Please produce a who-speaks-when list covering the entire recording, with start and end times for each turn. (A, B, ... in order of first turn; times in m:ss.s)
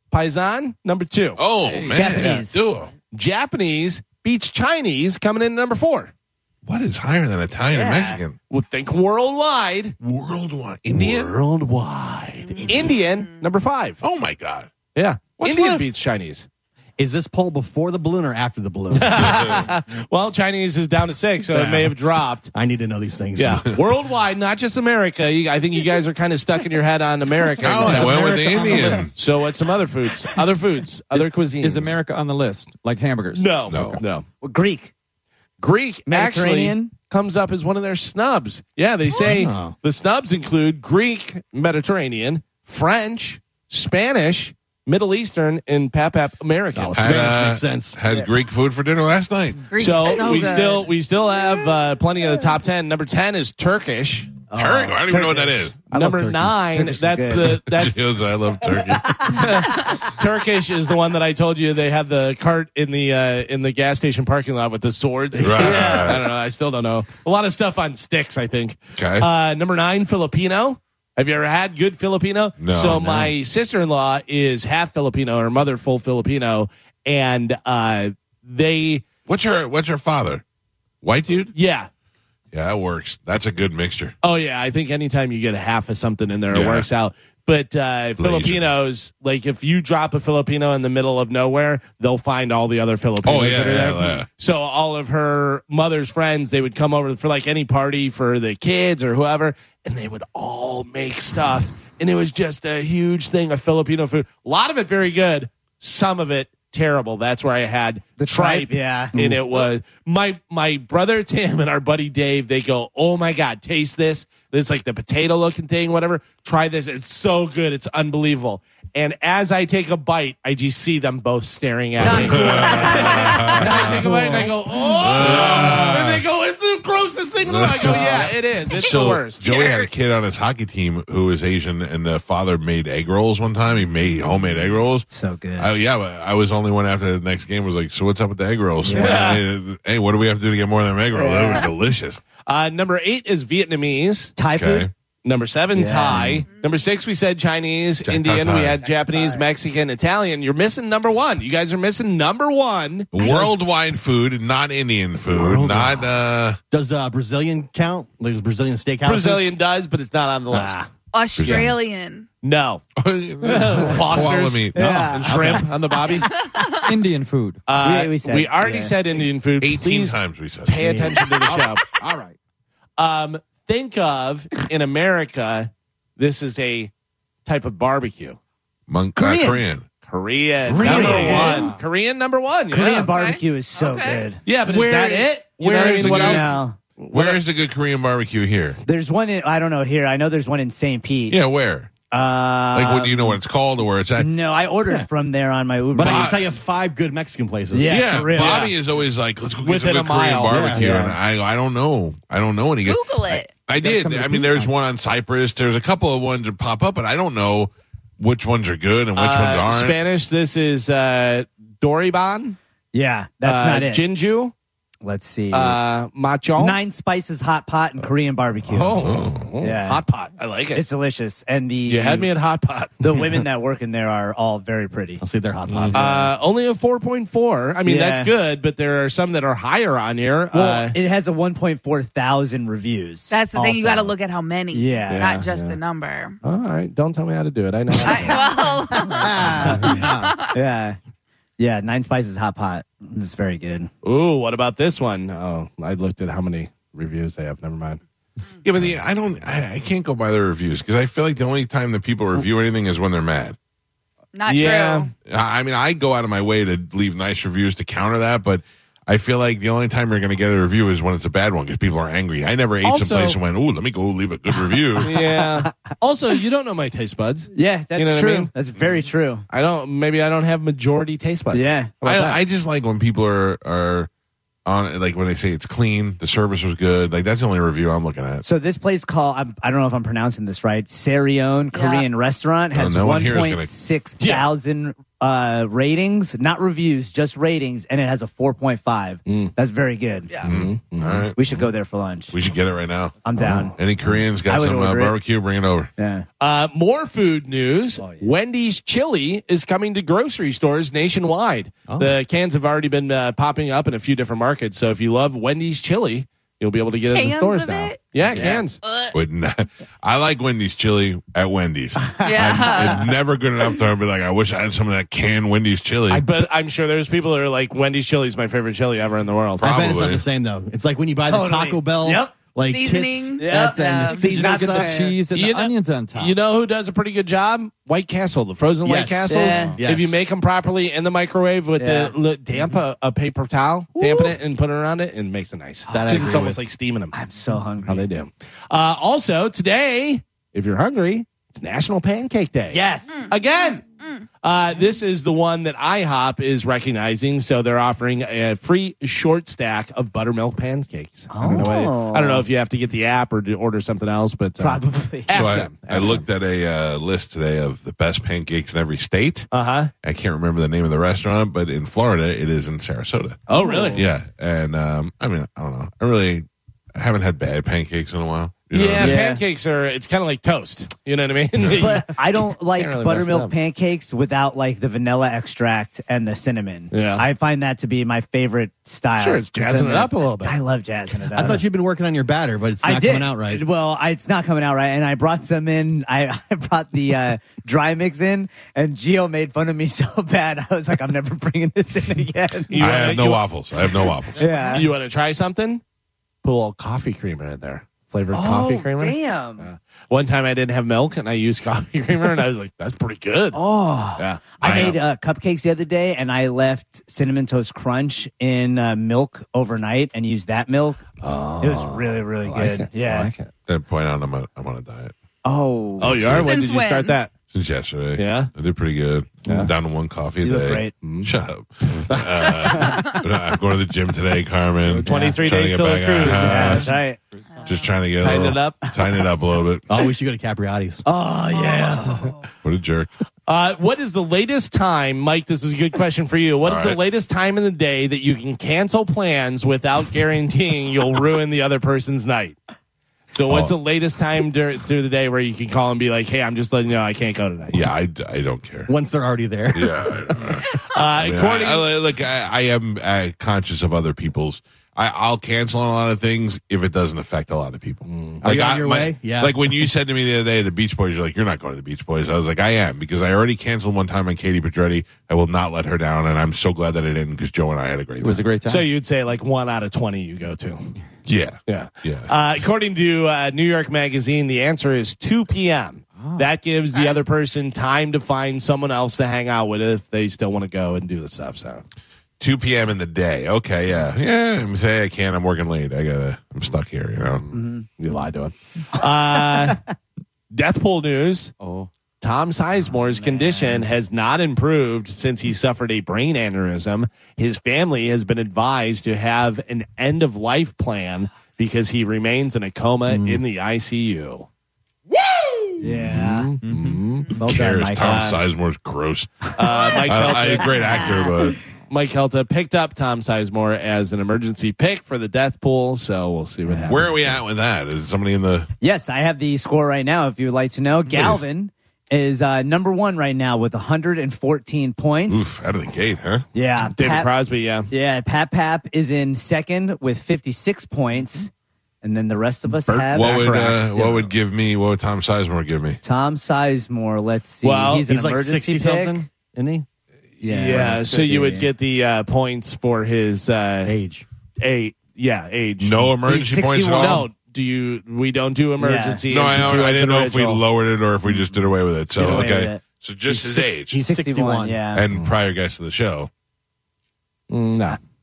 0:00.1-0:01.4 A
0:01.4-0:02.9 B
0:01.6-0:02.2 C
0:01.9-0:02.6 D
0:03.1-0:06.1 A
0:06.6-0:08.4 B
0:07.7-0:08.2 D
0:08.5-0:09.9 A
0:10.0-0:11.3 B
0:10.9-0:14.0 A
0:12.6-0:12.9 B
0:14.0-0:14.7 B
0:14.9-0:16.4 A
0:15.4-0:15.9 B
0:17.0-0:19.7 E
0:18.9-0:22.5 A
0:21.5-0:22.0 E
0:22.5-0:23.7 E
0:23.4-0:32.0 A
0:27.6-0:29.1 B
0:27.7-0:29.1 D
0:31.1-0:34.0 C
0:33.3-0:34.2 A
0:33.7-0:34.0 B
0:34.4-0:34.9 D
0:35.6-0:47.3 A
0:36.1-0:36.9 D
0:39.1-0:39.7 E
0:46.7-0:48.0 E
0:46.9-0:49.7 B
0:49.7-0:50.9 F
0:49.8-0:54.3 A
0:50.0-0:50.8 D
0:54.5-0:55.6 D
0:54.5-0:55.8 B
0:55.9-0:56.6 E
0:55.9-0:58.0 A
0:56.7-0:57.6 D
0:57.4-0:59.4 B
0:59.0-0:59.4 D
0:59.2-1:19.0 A
1:05.3-1:06.1 E
1:05.4-1:06.2 B
1:09.0-1:09.3 B
1:12.6-1:13.3 B
1:19.3-1:20.4 B
1:21.0-1:21.5 B
1:21.5-1:21.9 A
1:22.5-1:24.1 B
1:24.2-2:09.4 A
1:26.5-1:26.9 B
1:28.2-1:28.7 B
1:33.2-1:34.3 B
1:48.2-1:49.1 D
1:49.1-1:49.4 E
2:02.0-2:04.4 B
2:02.0-2:04.6 D
2:05.0-2:06.2 B
2:05.1-2:05.9 D
2:07.4-2:22.2 B
2:08.8-2:09.9 F
2:15.1-2:15.7 D
2:18.8-2:19.2 D
2:18.9-2:19.4 A
2:21.1-2:21.7 D
2:22.5-2:24.3 A
2:24.4-2:24.9 D
2:24.5-2:24.9 B
2:25.2-2:33.4 A
2:25.7-2:26.3 D
2:26.1-2:26.4 B
2:28.0-2:28.8 B
2:29.1-2:29.4 D
2:33.1-2:36.6 B
2:33.2-2:33.5 E
2:35.3-2:36.1 E
2:36.7-2:39.5 E
2:39.0-2:40.9 A
2:40.5-2:40.8 E
2:41.1-2:42.3 F
2:41.4-2:41.7 B
2:42.4-2:42.8 A
2:43.0-2:45.1 B
2:43.4-2:46.3 A
2:44.7-2:45.7 D
2:44.7-2:45.7 E
2:46.1-2:46.9 F
2:46.8-2:47.6 C
2:47.7-2:52.0 A
2:47.8-2:49.0 D
2:49.6-2:51.1 B
2:50.8-2:51.3 E
2:51.5-2:52.3 C
2:53.0-2:56.9 A
2:57.4-2:58.4 A
2:58.9-2:59.9 B
2:59.2-2:59.6 D
3:00.1-3:03.1 A
3:00.6-3:01.7 B
3:00.8-3:01.7 D
3:02.7-3:04.4 D
3:03.0-3:04.3 F
3:04.4-3:07.4 A
3:04.6-3:06.6 B
3:06.0-3:06.8 D
3:07.1-3:08.8 B
3:08.8-3:11.4 D
3:11.3-3:11.9 B
3:12.1-3:13.4 D
3:12.7-3:14.3 B
3:14.2-3:16.4 D
3:15.9-3:18.1 E
3:16.0-3:16.6 B
3:17.7-3:18.7 D
3:17.8-3:30.0 B
3:18.3-3:18.7 A
3:19.6-3:21.0 A
3:20.5-3:20.9 E
3:20.8-3:21.1 D
3:22.8-3:23.6 F
3:23.7-3:24.7 C
3:29.1-3:32.6 A
3:32.9-3:34.0 D
3:33.4-3:34.5 A
3:35.0-3:35.8 D
3:35.5-3:36.8 A
3:36.6-3:39.0 D
3:38.7-3:40.8 A
3:39.0-3:39.5 B
3:39.6-3:40.0 D
3:40.7-3:42.3 D
3:41.9-3:43.4 A
3:43.0-3:45.2 D
3:45.2-3:46.3 E
3:45.8-3:46.1 D
3:45.9-3:51.0 A
3:47.8-3:48.3 D
3:50.5-3:54.1 D
3:53.3-3:56.4 F
3:54.7-3:55.3 D
3:55.1-3:55.8 A
3:56.4-3:58.4 A
3:58.0-4:00.6 F
3:58.0-3:58.4 D
3:58.9-4:01.0 D
3:59.5-3:59.8 A
4:01.6-4:03.9 D
4:04.0-4:08.0 A
4:08.6-4:13.6 B
4:14.3-4:15.1 F
4:14.4-4:15.1 A
4:15.2-4:25.2 B
4:22.8-4:23.4 A
4:25.0-4:28.5 A
4:25.0-4:25.7 D
4:27.5-4:29.4 D
4:29.5-4:32.4 A
4:31.5-4:31.9 D
4:32.0-4:34.1 B
4:34.6-4:38.4 B
4:38.4-4:50.3 D
4:41.7-4:42.1 F
4:42.7-4:43.7 B
4:44.2-4:44.5 A
4:49.3-4:49.5 A
4:50.3-4:50.6 F
4:50.4-4:51.6 B
4:50.4-4:51.3 A
4:51.4-4:52.3 D
4:52.3-4:53.2 B
4:53.2-4:53.8 D
4:53.4-4:54.2 E
4:53.8-4:55.9 B
4:54.4-4:55.2 D
4:56.0-4:56.2 D
4:56.4-5:08.8 A
4:58.0-4:58.3 D
5:01.9-5:02.2 E
5:07.1-5:08.1 F
5:08.3-5:08.6 D
5:08.8-5:09.1 F
5:09.1-5:16.3 B
5:12.0-5:13.1 D
5:12.2-5:13.1 F
5:16.1-5:19.7 A
5:19.6-5:20.2 B
5:19.6-5:24.9 E
5:21.2-5:22.3 D
5:22.7-5:24.3 F
5:23.4-5:25.2 D
5:24.4-5:26.4 C
5:25.3-5:37.1 A
5:28.8-5:30.2 E
5:29.3-5:29.8 D
5:31.8-5:32.1 D
5:34.0-5:34.3 E
5:35.9-5:36.5 D
5:35.9-5:36.6 E
5:37.1-5:38.1 D
5:37.9-5:43.8 A
5:42.7-5:43.3 D
5:43.1-5:44.2 F
5:44.4-5:56.2 A
5:51.3-5:52.5 D
5:54.6-5:55.4 D
5:55.3-5:59.5 B
5:59.5-5:59.9 A
6:00.0-6:09.2 B
6:03.5-6:04.0 A
6:03.6-6:04.0 D
6:08.7-6:13.5 A
6:09.0-6:09.4 D
6:11.6-6:11.9 B
6:11.7-6:21.6 D
6:16.9-6:17.2 A
6:19.2-6:20.5 A
6:21.2-6:23.6 E
6:22.8-6:32.8 D
6:32.7-6:35.8 A
6:32.8-6:34.4 B
6:34.4-6:34.9 D
6:36.4-6:43.6 A
6:38.3-6:39.6 D
6:43.5-6:51.0 D
6:44.2-6:45.0 A
6:44.6-6:45.0 B
6:51.2-6:53.5 A
6:51.6-6:53.3 D
6:53.7-6:55.1 B
6:55.4-6:56.2 D
6:56.0-6:56.5 B
6:56.0-6:57.3 A
6:56.4-6:57.2 F
6:57.5-7:06.9 B
6:58.2-6:58.5 A
7:00.4-7:00.9 D
7:01.0-7:01.3 A
7:02.4-7:03.2 D
7:05.0-7:05.5 D
7:05.0-7:06.9 A
7:06.2-7:07.2 D
7:07.6-7:07.9 F
7:07.6-7:09.8 B
7:08.2-7:08.8 A
7:09.9-7:11.0 E
7:11.0-7:12.3 D
7:11.6-7:12.4 F
7:12.6-7:13.1 B
7:13.5-7:22.6 A
7:16.6-7:17.0 B
7:23.3-7:27.8 A
7:23.5-7:23.7 B
7:27.7-7:28.9 B
7:28.9-7:30.5 E
7:29.7-7:48.5 B
7:30.9-7:31.9 A
7:38.0-7:38.4 A
7:38.4-7:39.9 E
7:48.2-7:48.9 C
7:48.6-7:50.9 A
7:51.2-7:52.3 B
7:51.7-8:01.8 A
7:56.2-7:56.4 C
8:02.4-8:07.4 B
8:07.5-8:07.8 D
8:08.0-8:09.8 A
8:09.3-8:09.8 D
8:10.5-8:11.5 A
8:11.6-8:11.9 C
8:12.2-8:24.5 A
8:13.1-8:13.8 D
8:23.1-8:23.4 E
8:25.1-8:27.3 A
8:25.8-8:26.5 D
8:26.6-8:27.0 C
8:27.4-8:28.3 D
8:27.4-8:31.6 B
8:28.0-8:28.4 A
8:29.6-8:30.9 A
8:30.8-8:31.2 F
8:31.9-8:37.3 A
8:36.7-8:36.9 D
8:36.9-8:38.7 B
8:38.8-8:45.5 D
8:41.1-8:41.4 B
8:45.3-8:46.4 B
8:46.5-8:47.3 D
8:47.0-8:47.9 A
8:47.9-8:51.5 D
8:52.0-8:53.4 D
8:52.8-8:54.2 A
8:53.1-8:56.0 B
8:56.0-8:59.2 D
8:57.6-8:58.0 A
8:58.1-8:59.8 E
9:00.4-9:01.7 D
9:00.4-9:03.9 A
9:03.8-9:04.2 E
9:04.6-9:10.6 A
9:05.8-9:07.3 B
9:06.3-9:07.2 D
9:08.8-9:09.2 D
9:09.3-9:14.0 B
9:12.1-9:12.8 D
9:13.3-9:14.8 E
9:13.9-9:15.0 D
9:14.9-9:16.3 B
9:17.5-9:18.0 A